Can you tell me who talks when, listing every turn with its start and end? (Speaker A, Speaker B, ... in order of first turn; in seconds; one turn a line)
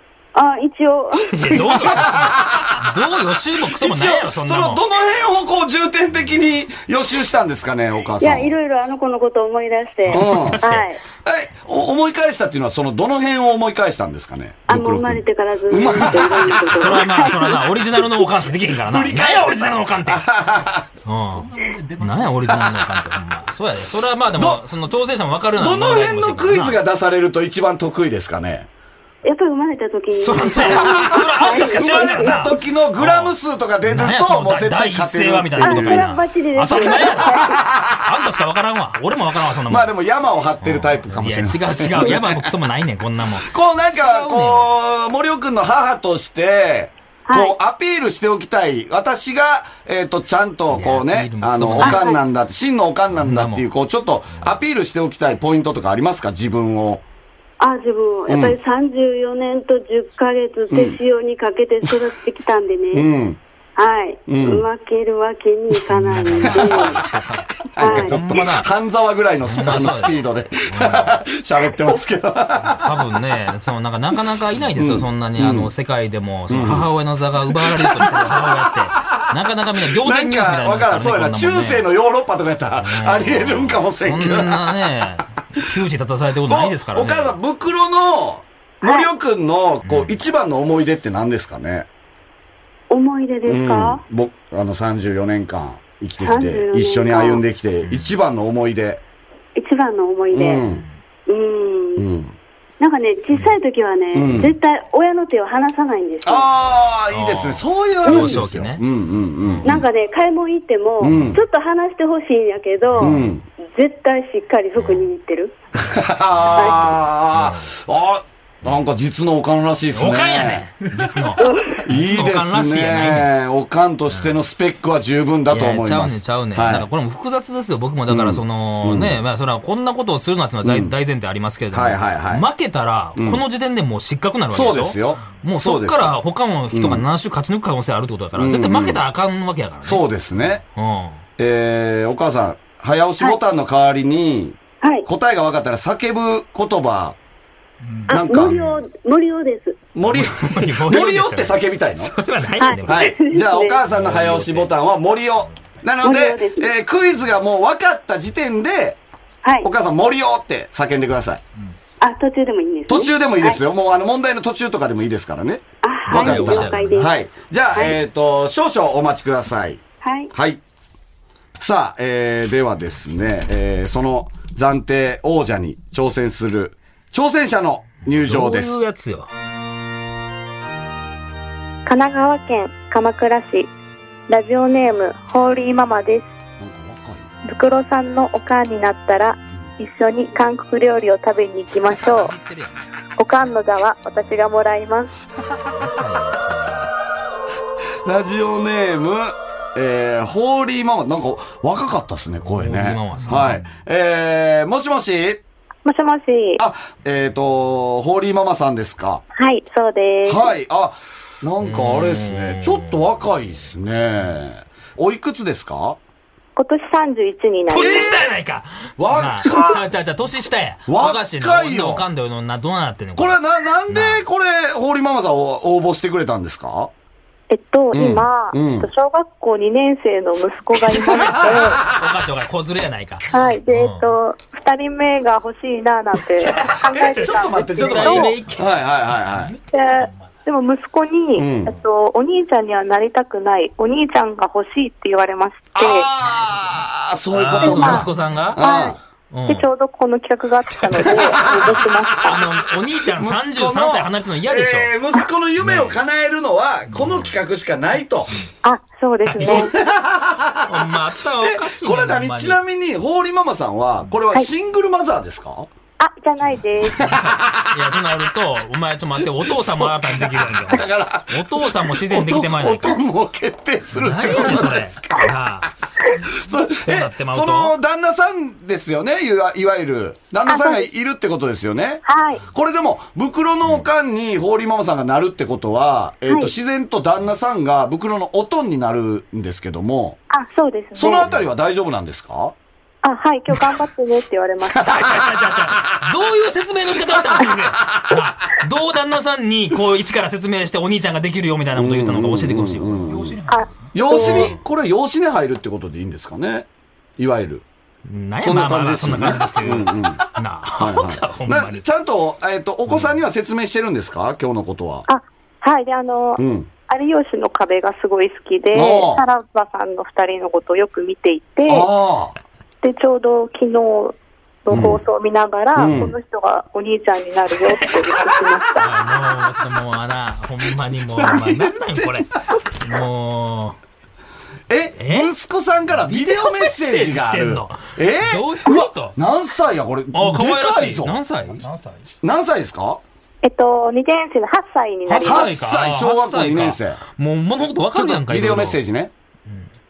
Speaker A: 0.3-2.0
Speaker B: 1.2-4.8
Speaker C: 1.8-2.9
Speaker C: 3.6-8.5
Speaker A: 8.2-11.0
Speaker B: 10.1-10.9
Speaker C: 10.1-10.6
Speaker C: 11.2-17.1
Speaker A: 14.7-17.6
Speaker B: 16.7-20.3
Speaker C: 18.9-20.9
Speaker B: 21.1-26.8
Speaker D: 21.1-22.8
Speaker C: 24.4-24.6
Speaker C: 25.6-28.7
Speaker A: 29.2-32.5
Speaker B: 30.1-39.9
Speaker C: 30.6-38.1
Speaker A: 35.6-37.6
Speaker C: 39.6-42.5
Speaker B: 40.6-44.7
Speaker C: 43.4-57.0
Speaker A: 47.3-47.5
Speaker B: 50.7-52.1
Speaker A: 51.8-52.2
Speaker B: 53.2-53.7
Speaker A: 57.6-63.1
Speaker C: 58.3-58.6
Speaker C: 60.7-61.0
Speaker C: 62.9-63.4
Speaker A: 63.8-67.0
Speaker C: 64.3-64.7
Speaker B: 65.9-68.7
Speaker C: 66.4-67.0
Speaker C: 67.7-72.9
Speaker A: 67.8-68.4
Speaker B: 69.5-71.2
Speaker B: 72.7-81.9
Speaker C: 74.8-75.7
Speaker C: 76.5-76.9
Speaker C: 77.6-79.3
Speaker C: 79.9-84.6
Speaker B: 82.8-87.4
Speaker C: 86.5-91.9
Speaker A: 88.8-89.1
Speaker B: 89.8-90.2
Speaker A: 92.9-94.0
Speaker C: 93.5-99.0
Speaker A: 96.2-97.4
Speaker B: 97.8-98.1
Speaker A: 99.6-100.6
Speaker C: 100.3-100.8
Speaker A: 101.3-102.1
Speaker C: 102.0-102.3
Speaker A: 102.8-106.5
Speaker C: 104.1-104.5
Speaker C: 106.2-109.8
Speaker B: 107.1-108.8
Speaker A: 108.1-108.4
Speaker B: 109.4-109.8
Speaker A: 109.7-115.5
Speaker C: 111.0-111.4
Speaker B: 112.9-113.2
Speaker C: 113.0-113.4
Speaker B: 114.8-115.1
Speaker C: 115.8-120.7
Speaker B: 116.5-116.8
Speaker A: 116.5-117.0
Speaker B: 117.3-117.7
Speaker B: 119.9-123.3
Speaker A: 121.4-121.8
Speaker C: 121.8-126.9
Speaker B: 125.5-140.0
Speaker C: 128.1-129.2
Speaker C: 130.6-130.9
Speaker C: 131.7-132.5
Speaker C: 133.2-133.4
Speaker C: 134.5-136.1
Speaker C: 136.7-137.0
Speaker C: 138.4-139.0
Speaker C: 139.8-140.6
Speaker B: 140.8-141.2
Speaker C: 141.4-147.2
Speaker A: 144.8-145.1
Speaker D: 147.8-148.2
Speaker C: 148.1-148.6
Speaker A: 148.1-149.8
Speaker C: 149.9-152.2
Speaker B: 150.1-153.2
Speaker A: 152.6-153.8
Speaker C: 152.8-159.0
Speaker B: 153.9-154.7
Speaker A: 156.0-156.7
Speaker A: 159.4-159.7
Speaker C: 159.6-161.4
Speaker A: 162.0-163.6
Speaker C: 162.9-169.8
Speaker A: 165.8-167.1
Speaker B: 166.1-167.1
Speaker A: 170.0-170.3
Speaker C: 170.3-170.6
Speaker C: 171.6-178.7
Speaker B: 178.1-179.3
Speaker E: 181.9-183.7
Speaker E: 184.3-186.3
Speaker C: 186.6-187.3
Speaker E: 187.4-192.3
Speaker B: 191.9-192.8
Speaker E: 193.2-195.1
Speaker B: 195.7-196.9
Speaker C: 198.1-205.4
Speaker B: 202.5-203.6
Speaker D: 203.2-203.5
Speaker E: 205.8-206.6
Speaker C: 206.6-209.2
Speaker E: 209.4-210.5
Speaker C: 210.3-216.0
Speaker B: 211.6-213.0
Speaker E: 216.6-218.1
Speaker B: 217.7-223.4
Speaker C: 217.7-218.3
Speaker C: 219.0-219.8
Speaker C: 220.9-222.1
Speaker C: 223.2-226.9
Speaker B: 223.9-224.2
Speaker E: 227.5-231.8
Speaker C: 227.9-228.9
Speaker C: 231.0-232.0
Speaker B: 231.3-234.1
Speaker E: 233.3-238.3
Speaker B: 236.4-240.1
Speaker C: 236.8-239.6
Speaker E: 239.7-246.1
Speaker C: 241.4-241.7
Speaker C: 245.8-249.0
Speaker B: 247.3-248.6
Speaker E: 247.6-248.1
Speaker E: 248.6-249.0
Speaker B: 249.3-249.7
Speaker E: 249.5-252.4
Speaker C: 251.0-252.4
Speaker B: 252.2-254.9
Speaker C: 253.1-258.3
Speaker B: 255.6-256.0
Speaker B: 256.9-257.4
Speaker E: 258.6-259.7
Speaker C: 259.4-265.7
Speaker B: 259.4-259.7
Speaker B: 260.7-262.6
Speaker E: 266.0-267.2
Speaker C: 266.9-267.9
Speaker B: 267.7-273.0
Speaker C: 269.2-275.4
Speaker B: 273.9-275.7
Speaker C: 276.3-290.2
Speaker B: 276.8-277.7
Speaker E: 280.5-280.9
Speaker E: 282.1-282.4
Speaker E: 290.3-291.2
Speaker C: 291.0-292.5
Speaker E: 293.0-295.0
Speaker B: 294.8-303.1
Speaker C: 294.9-295.1
Speaker C: 301.8-303.4
Speaker D: 303.1-304.3
Speaker E: 303.5-304.5
Speaker C: 303.9-306.7
Speaker B: 304.2-304.5
Speaker C: 307.2-307.6
Speaker B: 308.1-311.9
Speaker C: 308.4-315.1
Speaker B: 312.9-313.1
Speaker E: 315.1-321.9
Speaker C: 316.4-316.7
Speaker C: 318.7-319.2
Speaker C: 321.7-322.3
Speaker E: 322.8-328.9
Speaker C: 324.7-325.0
Speaker C: 325.8-326.1
Speaker B: 328.8-333.8
Speaker C: 331.2-332.1
Speaker C: 334.7-341.1
Speaker B: 335.0-335.3
Speaker B: 335.9-339.2
Speaker B: 340.1-341.7
Speaker D: 341.6-342.1
Speaker C: 342.2-343.0
Speaker E: 343.4-345.5
Speaker B: 345.1-348.8
Speaker C: 345.2-347.0
Speaker C: 347.9-349.1